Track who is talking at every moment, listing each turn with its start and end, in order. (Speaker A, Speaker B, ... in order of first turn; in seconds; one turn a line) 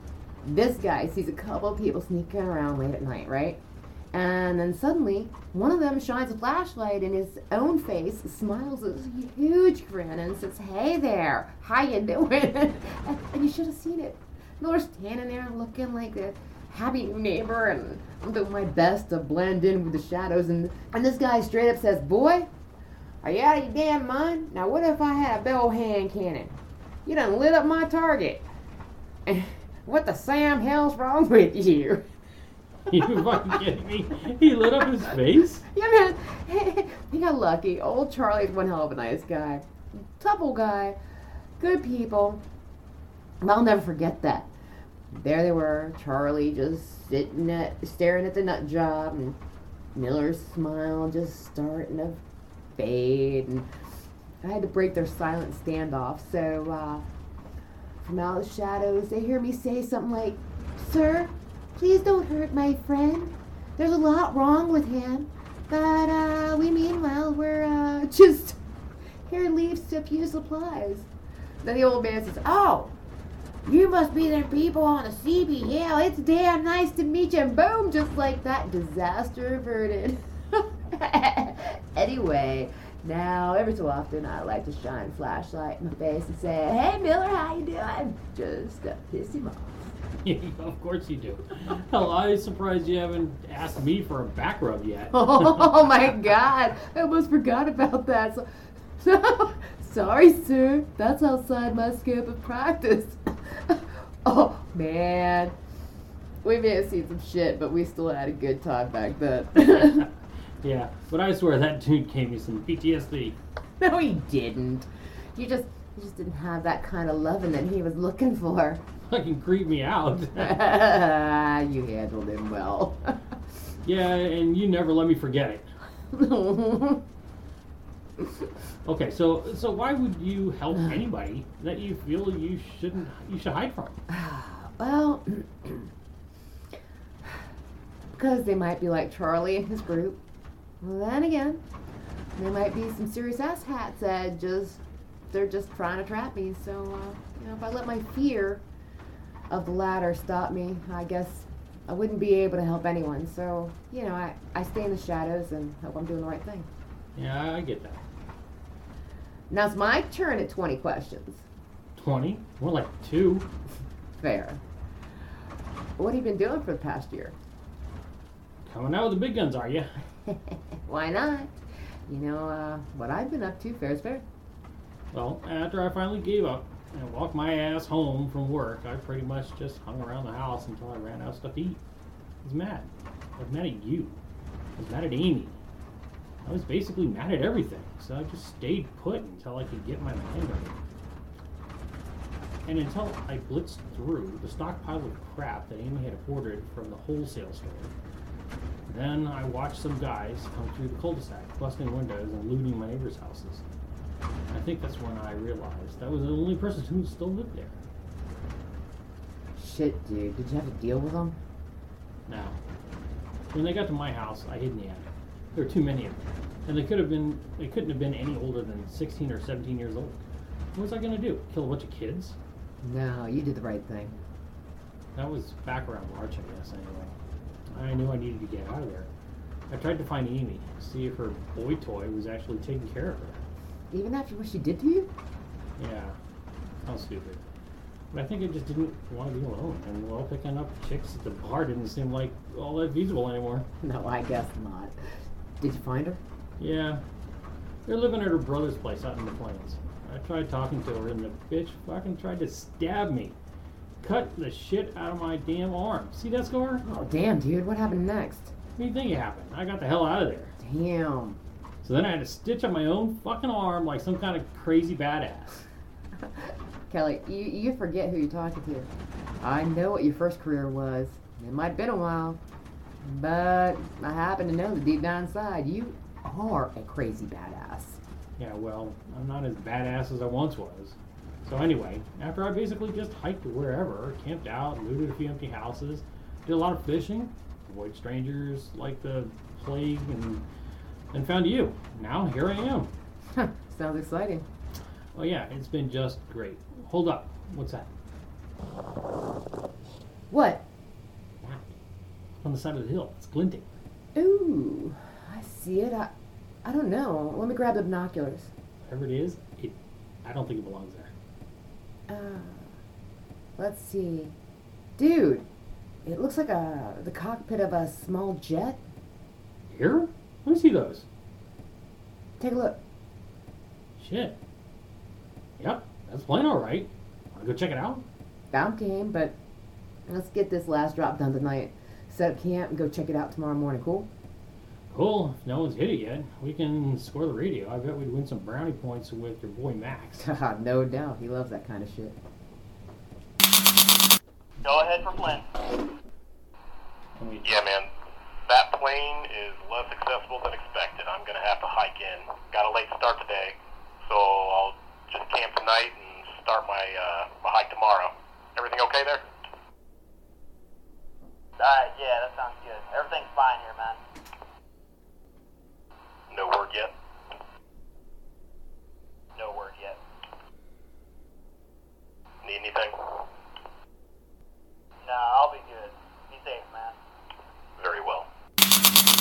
Speaker A: 0.4-3.6
Speaker A: 4.1-22.5
Speaker A: 23.2-28.4
Speaker A: 29.2-32.0
Speaker B: 32.9-35.6
Speaker A: 35.7-41.0
Speaker A: 41.6-42.4
Speaker A: 43.4-44.5
Speaker A: 45.1-49.4
Speaker A: 49.9-52.2
Speaker A: 52.8-53.6
Speaker A: 54.4-57.0
Speaker A: 58.0-68.6
Speaker A: 69.3-71.1
Speaker A: 71.6-72.9
Speaker A: 73.7-89.9
Speaker B: 90.2-96.0
Speaker A: 95.1-98.5
Speaker A: 99.0-105.5
Speaker A: 106.4-110.1
Speaker B: 109.7-110.1
Speaker B: 110.6-113.4
Speaker A: 113.8-118.8
Speaker B: 119.0-120.6
Speaker A: 120.3-123.1
Speaker B: 123.8-125.7
Speaker A: 126.1-127.0
Speaker B: 128.8-133.9
Speaker A: 134.1-135.9
Speaker A: 138.2-140.2
Speaker A: 140.8-141.6
Speaker A: 142.3-148.6
Speaker A: 149.5-156.7
Speaker B: 157.2-158.0
Speaker A: 159.5-161.4
Speaker B: 162.0-163.5
Speaker A: 164.2-164.6
Speaker A: 166.0-167.3
Speaker B: 168.6-170.0
Speaker A: 170.8-171.6
Speaker A: 172.1-174.2
Speaker B: 175.1-181.8
Speaker B: 182.4-184.2
Speaker B: 184.8-185.6
Speaker B: 186.4-190.8
Speaker B: 192.7-197.9
Speaker B: 198.8-203.6
Speaker B: 204.5-207.8
Speaker A: 209.6-211.4
Speaker B: 212.3-212.6
Speaker B: 213.5-222.3
Speaker A: 222.8-224.2
Speaker B: 225.1-227.2
Speaker B: 227.7-229.1
Speaker B: 229.7-233.4
Speaker A: 233.9-235.1
Speaker B: 235.8-236.2
Speaker B: 236.8-237.4
Speaker B: 238.1-243.7
Speaker A: 243.8-245.0
Speaker A: 245.6-246.2
Speaker B: 246.6-247.0
Speaker B: 247.8-253.3
Speaker B: 254.0-256.8
Speaker A: 256.8-258.5
Speaker B: 258.8-260.5
Speaker A: 260.6-261.4
Speaker B: 261.8-265.6
Speaker A: 266.2-268.9
Speaker A: 269.4-272.4
Speaker A: 273.0-278.0
Speaker B: 278.4-290.4
Speaker B: 291.1-292.9
Speaker A: 293.4-294.4
Speaker B: 295.1-297.9
Speaker A: 300.3-300.6
Speaker B: 302.4-303.7
Speaker A: 304.1-306.1
Speaker A: 306.6-308.5
Speaker B: 308.8-311.1
Speaker A: 312.1-312.7
Speaker A: 313.6-314.4
Speaker A: 315.0-315.5
Speaker A: 316.0-318.8
Speaker B: 319.7-321.1
Speaker A: 322.4-322.8
Speaker B: 324.0-324.4
Speaker B: 325.6-328.0
Speaker A: 328.5-329.4
Speaker A: 330.1-334.1
Speaker B: 334.9-340.3
Speaker A: 340.2-342.2
Speaker C: 344.6-345.5
Speaker B: 347.2-347.7
Speaker D: 348.5-353.5
Speaker D: 354.1-358.0
Speaker D: 358.6-359.1
Speaker C: 361.6-364.0
Speaker D: 366.3-366.9
Speaker C: 369.3-370.0
Speaker D: 372.5-372.9
Speaker C: 375.0-377.0
Speaker D: 377.8-378.2